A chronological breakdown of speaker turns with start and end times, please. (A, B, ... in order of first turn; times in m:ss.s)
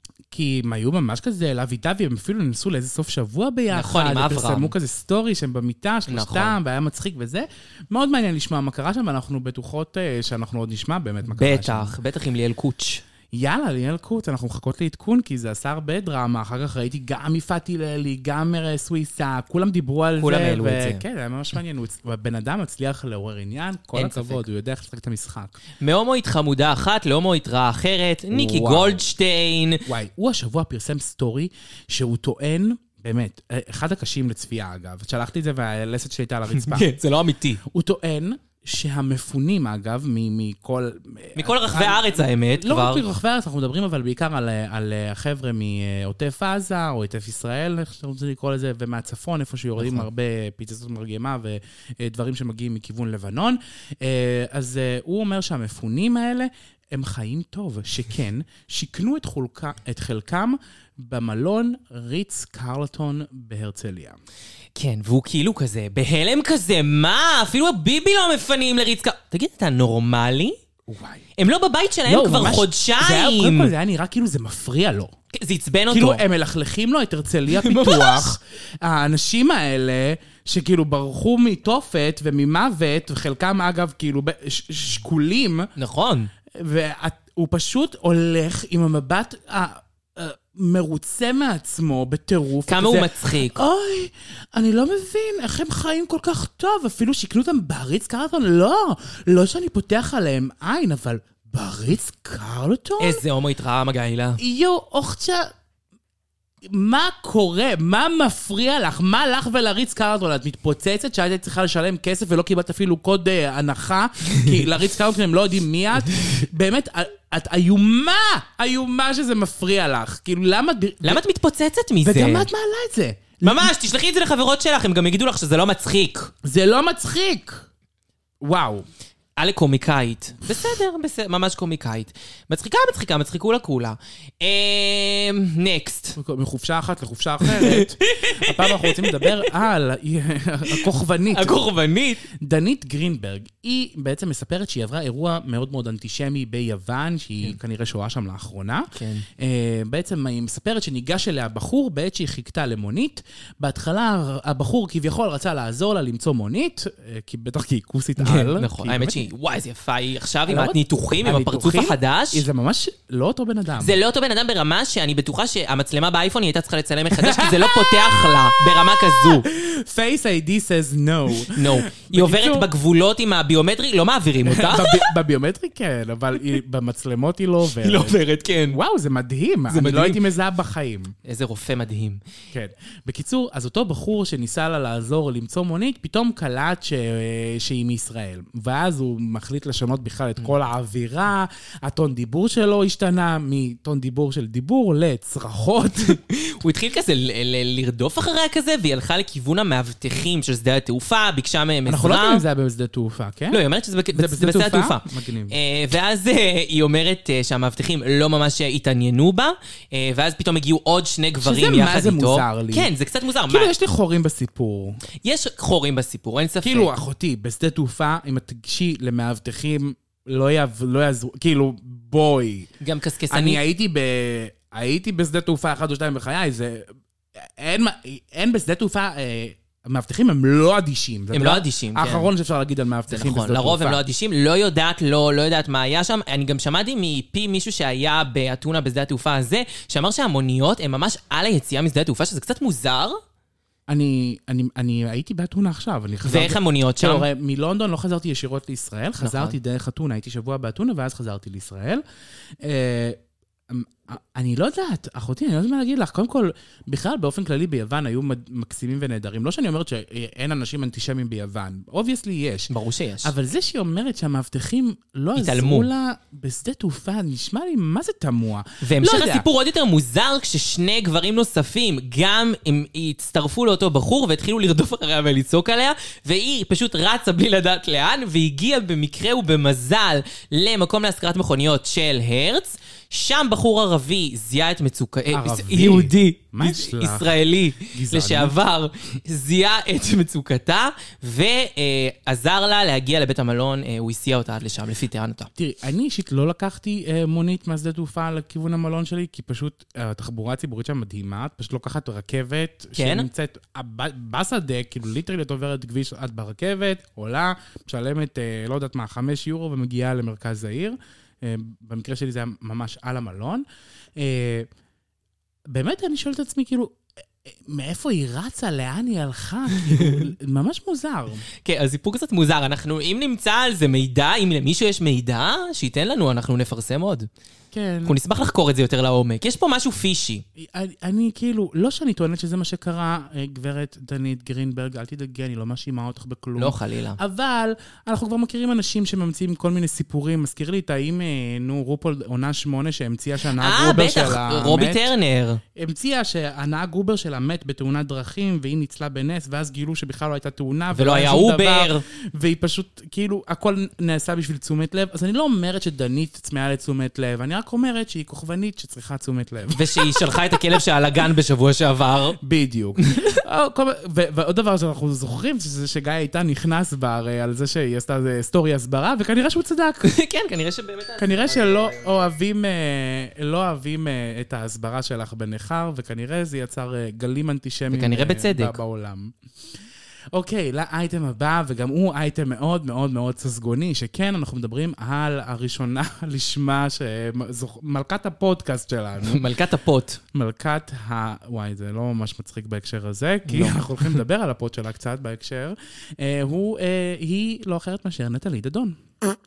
0:00.3-0:11.9 A
0:03.7-0:04.7 B
0:06.1-0:06.6 B
0:11.3-0:13.0 B
0:13.3-0:25.5 A
0:20.2-0:21.0 B
0:23.9-0:24.4 B
0:25.8-0:29.9 B
0:28.3-0:29.0 A
0:29.9-0:36.9 A
0:36.5-0:37.6 B
0:37.6-1:04.2 A
0:41.4-0:43.0 B
0:49.8-0:50.1 B
1:04.8-1:10.6 B
1:10.9-1:11.2 A
1:11.4-1:13.7 B
1:12.0-1:15.1 A
1:15.3-1:16.2 B
1:15.9-1:25.7 A
1:17.5-1:18.3 B
1:25.8-1:26.3 B
1:26.5-1:43.2 A
1:32.7-1:33.6 B
1:43.0-1:44.4 B
1:44.4-1:45.5 A
1:46.6-2:01.2 A
2:01.0-2:02.5 B
2:02.0-2:03.7 A
2:03.4-2:06.3 B
2:06.4-2:07.6 A
2:08.4-2:08.8 A
2:09.4-2:16.2 B
2:16.2-2:21.6 A
2:17.4-2:19.4 B
2:21.3-2:22.2 B
2:22.3-2:39.3 A
2:28.9-2:29.2 B
2:38.2-2:42.4 B
2:40.5-2:44.0 A
2:43.8-2:49.4 B
2:47.2-2:52.7 A
2:51.5-2:55.1 B
2:54.4-2:58.2 A
2:57.8-2:58.8 B
2:58.7-3:01.1 A
2:59.7-3:00.2 B
3:01.2-3:02.2 B
3:02.5-3:16.2 A
3:16.0-3:22.4 B
3:21.8-3:23.6 A
3:23.5-3:33.7 B
3:24.1-3:25.5 A
3:31.4-3:32.9 A
3:33.5-3:35.0 A
3:35.2-3:36.9 B
3:36.6-3:42.7 A
3:42.8-3:43.6 B
3:43.3-3:54.0 A
3:51.3-3:52.3 B
3:53.1-4:03.2 B
4:03.9-4:12.0 A
4:06.2-4:07.3 B
4:09.2-4:09.5 B
4:12.6-4:13.2 A
4:13.7-4:22.7 A
4:22.7-4:23.3 B
4:23.2-4:29.4 A
4:25.4-4:25.9 B
4:28.8-4:55.5 B
4:45.3-4:48.5 A
4:55.6-5:13.6 A
5:02.9-5:03.2 B
5:14.2-5:14.7 A
5:15.7-5:21.4 A
5:19.9-5:20.2 B
5:21.6-5:27.3 B
5:27.7-5:28.2 A
5:28.0-5:30.4 B
5:30.6-5:45.1 A
5:36.6-5:37.2 B
5:43.6-5:45.6 B
5:45.7-6:00.2 A
5:50.9-5:52.0 B
5:59.7-6:02.4 B
6:02.4-6:10.1 A
6:03.0-6:03.4 B
6:10.0-6:12.2 B
6:11.2-6:19.3 A
6:17.9-6:18.8 B
6:20.3-6:29.5 A
6:29.2-6:30.2 B
6:30.3-6:39.0 A
6:33.5-6:34.2 B